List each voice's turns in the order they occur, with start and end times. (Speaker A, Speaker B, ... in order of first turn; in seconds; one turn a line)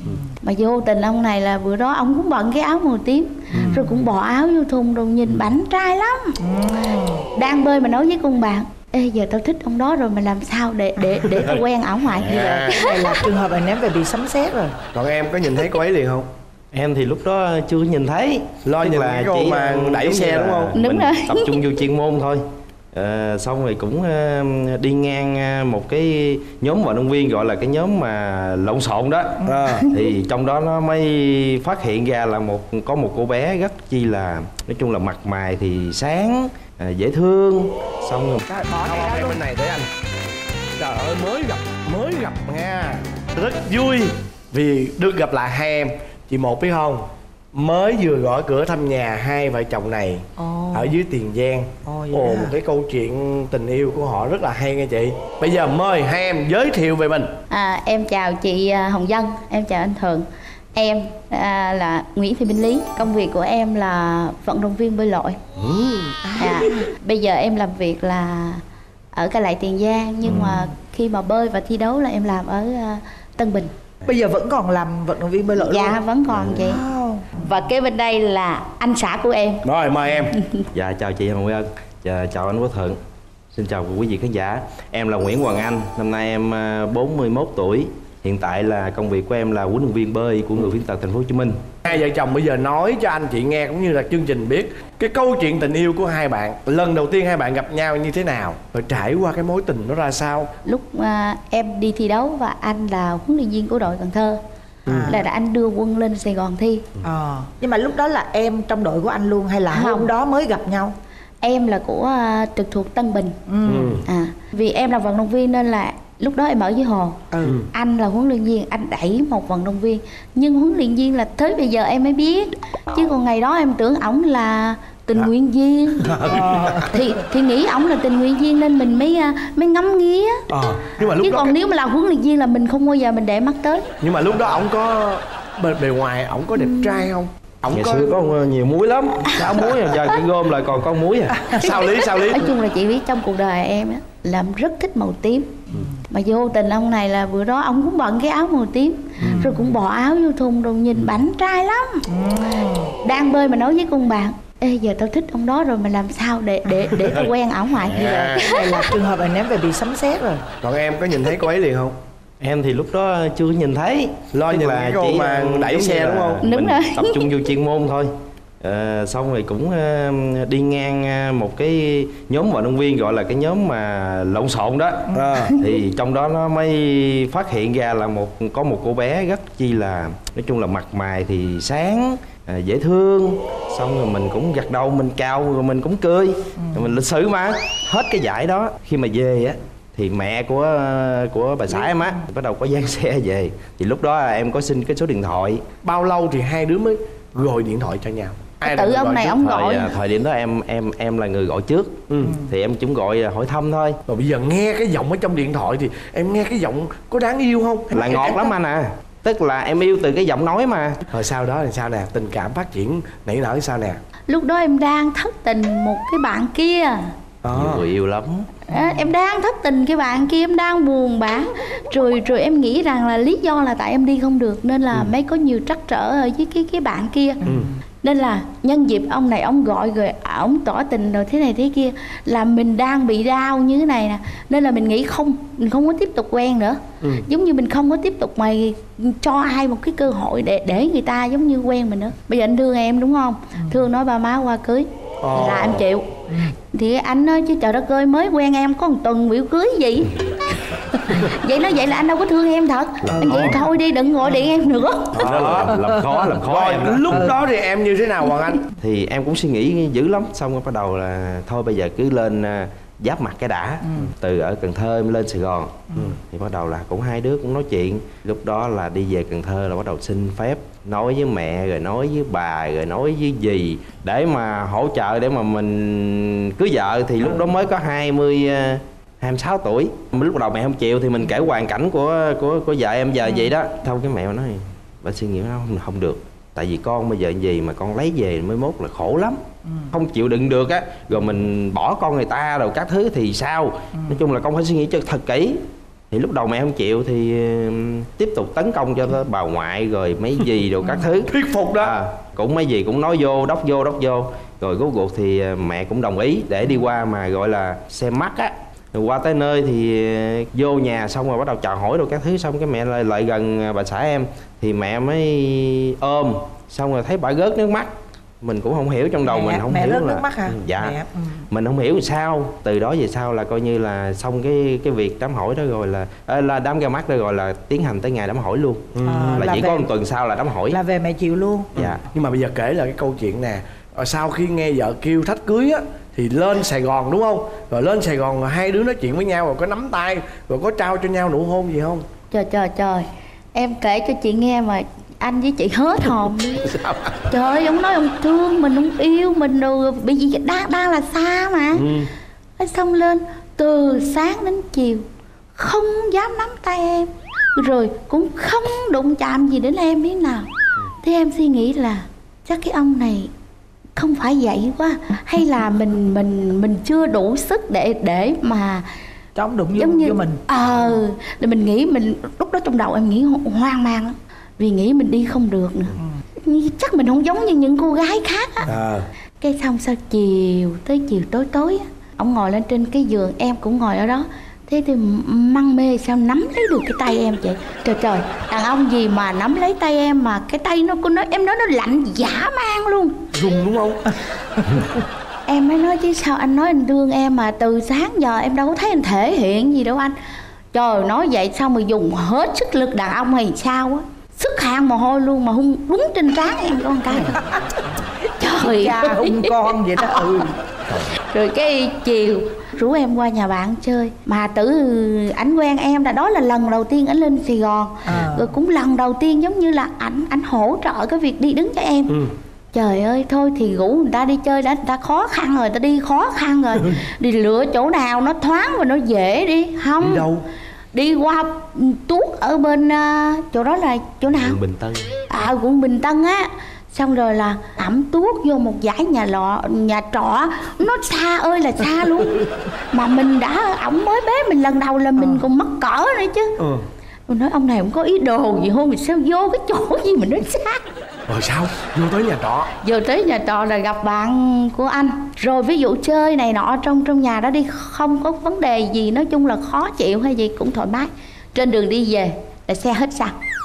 Speaker A: 0.4-6.4
Speaker B: 3.5-4.0
Speaker B: 6.4-7.3
Speaker A: 7.4-13.2
Speaker B: 11.0-11.3
Speaker C: 12.1-12.9
Speaker B: 12.2-14.8
Speaker C: 14.9-16.3
Speaker D: 16.7-22.4
Speaker C: 18.6-20.7
Speaker A: 20.8-21.6
Speaker D: 22.9-38.5
Speaker C: 29.4-29.9
Speaker B: 38.5-39.4
Speaker C: 38.8-39.9
Speaker C: 40.8-57.4
Speaker B: 50.4-51.0
Speaker B: 51.9-52.6
Speaker A: 57.5-65.4
Speaker C: 65.6-66.3
Speaker B: 66.2-66.9
Speaker A: 66.4-68.6
Speaker A: 69.1-73.7
Speaker C: 70.3-70.6
Speaker B: 74.0-77.6
Speaker A: 75.5-76.8
Speaker A: 77.4-79.7
Speaker C: 79.6-80.4
Speaker A: 80.3-80.6
Speaker D: 80.7-83.0
Speaker D: 83.5-91.6
Speaker C: 91.8-100.5
Speaker A: 100.7-104.4
Speaker C: 104.9-105.2
Speaker B: 104.9-105.2
Speaker A: 105.1-106.8
Speaker B: 107.0-111.0
Speaker A: 109.7-110.1
Speaker A: 111.4-113.4
Speaker B: 113.5-114.0
Speaker C: 113.7-114.0
Speaker A: 114.0-126.1
Speaker B: 117.3-117.7
Speaker C: 126.0-126.9
Speaker B: 126.3-127.0
Speaker A: 126.8-130.5
Speaker C: 130.5-131.6
Speaker A: 131.2-133.8
Speaker C: 134.0-138.2
Speaker A: 136.6-137.1
Speaker D: 137.7-141.6
Speaker C: 141.5-142.5
Speaker A: 142.3-145.6
Speaker A: 146.1-152.1
Speaker B: 149.2-149.7
Speaker B: 152.1-152.9
Speaker A: 153.0-158.9
Speaker C: 157.0-158.5
Speaker B: 157.9-160.4
Speaker C: 160.6-162.0
Speaker D: 162.4-168.1
Speaker C: 164.3-166.4
Speaker A: 166.4-167.2
Speaker D: 168.6-195.6
Speaker B: 175.1-175.4
Speaker C: 175.1-175.6
Speaker C: 195.8-199.4
Speaker A: 198.6-199.9
Speaker D: 199.4-204.0
Speaker C: 202.1-202.4
Speaker C: 204.1-208.3
Speaker D: 207.9-211.1
Speaker B: 208.1-208.5
Speaker C: 211.1-214.0
Speaker A: 214.3-217.1
Speaker C: 217.4-217.9
Speaker D: 217.5-218.5
Speaker A: 218.7-227.4
Speaker C: 227.5-227.7
Speaker A: 228.0-255.2
Speaker C: 245.2-245.8
Speaker D: 253.0-253.6
Speaker B: 253.2-253.5
Speaker D: 255.1-257.4
Speaker C: 255.1-258.7
Speaker D: 258.8-317.9
Speaker B: 263.9-264.1
Speaker B: 294.0-294.2
Speaker C: 301.3-301.9
Speaker D: 318.4-321.0
Speaker B: 319.2-321.5
Speaker D: 321.5-330.8
Speaker C: 328.9-329.5
Speaker B: 329.0-329.9
Speaker B: 330.7-331.7
Speaker C: 331.8-342.1
Speaker D: 331.8-332.0
Speaker A: 342.3-346.8
Speaker C: 346.7-347.2
Speaker A: 347.3-351.9
Speaker C: 351.7-352.1
Speaker A: 352.6-355.1
Speaker A: 355.6-360.5
Speaker A: 361.0-363.3
Speaker A: 364.0-368.9
Speaker B: 369.4-370.4
Speaker A: 369.8-378.7
Speaker C: 378.7-379.1
Speaker A: 379.4-393.2
Speaker C: 393.3-394.2
Speaker A: 395.5-400.1
Speaker A: 400.7-407.4
Speaker B: 407.1-407.6
Speaker A: 408.2-410.3
Speaker B: 408.6-410.6
Speaker A: 410.9-422.2
Speaker B: 418.1-418.6
Speaker A: 422.7-430.3
Speaker C: 430.0-430.5
Speaker A: 430.9-434.6
Speaker D: 434.3-435.2
Speaker A: 435.3-446.5
Speaker B: 445.2-445.5
Speaker C: 446.6-446.9
Speaker A: 447.3-450.8
Speaker C: 451.3-452.7
Speaker A: 452.8-463.4